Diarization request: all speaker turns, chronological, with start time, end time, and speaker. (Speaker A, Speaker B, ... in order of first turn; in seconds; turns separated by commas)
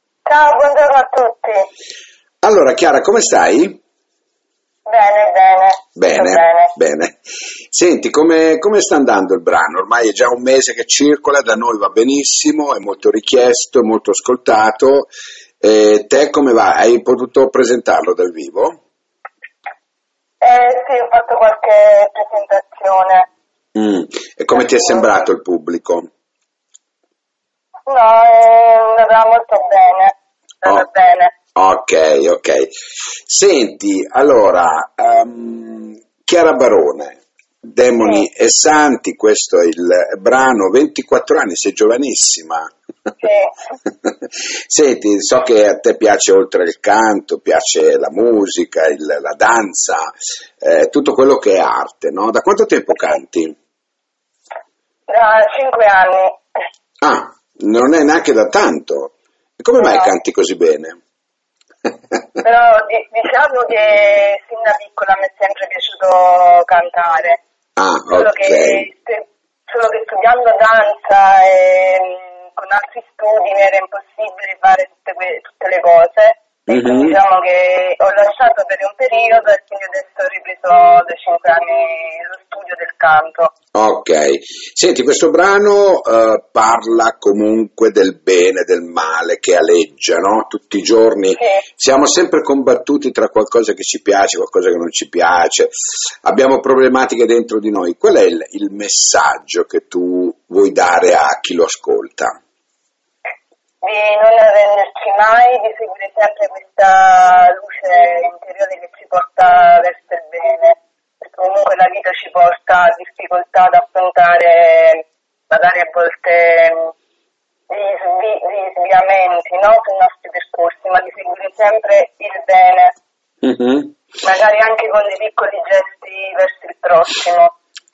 Speaker A: 0.2-1.7, Speaker B: 2.4-3.8, Speaker A: 4.9-6.7, Speaker B: 6.0-15.1, Speaker B: 15.6-18.8, Speaker A: 20.4-23.3, Speaker B: 23.7-26.1, Speaker A: 24.5-25.1, Speaker A: 27.9-31.3, Speaker B: 31.5-32.7, Speaker B: 33.2-42.7, Speaker A: 38.0-38.2, Speaker A: 43.2-43.5, Speaker B: 44.7-53.5, Speaker A: 55.1-56.4, Speaker B: 57.0-61.0, Speaker A: 59.8-60.1, Speaker A: 62.4-67.4, Speaker B: 67.8-68.9, Speaker A: 68.1-83.5, Speaker B: 76.7-77.2, Speaker B: 83.7-95.7, Speaker B: 96.2-102.4, Speaker A: 103.8-116.9, Speaker A: 117.7-122.9, Speaker B: 123.4-123.9, Speaker A: 124.2-127.5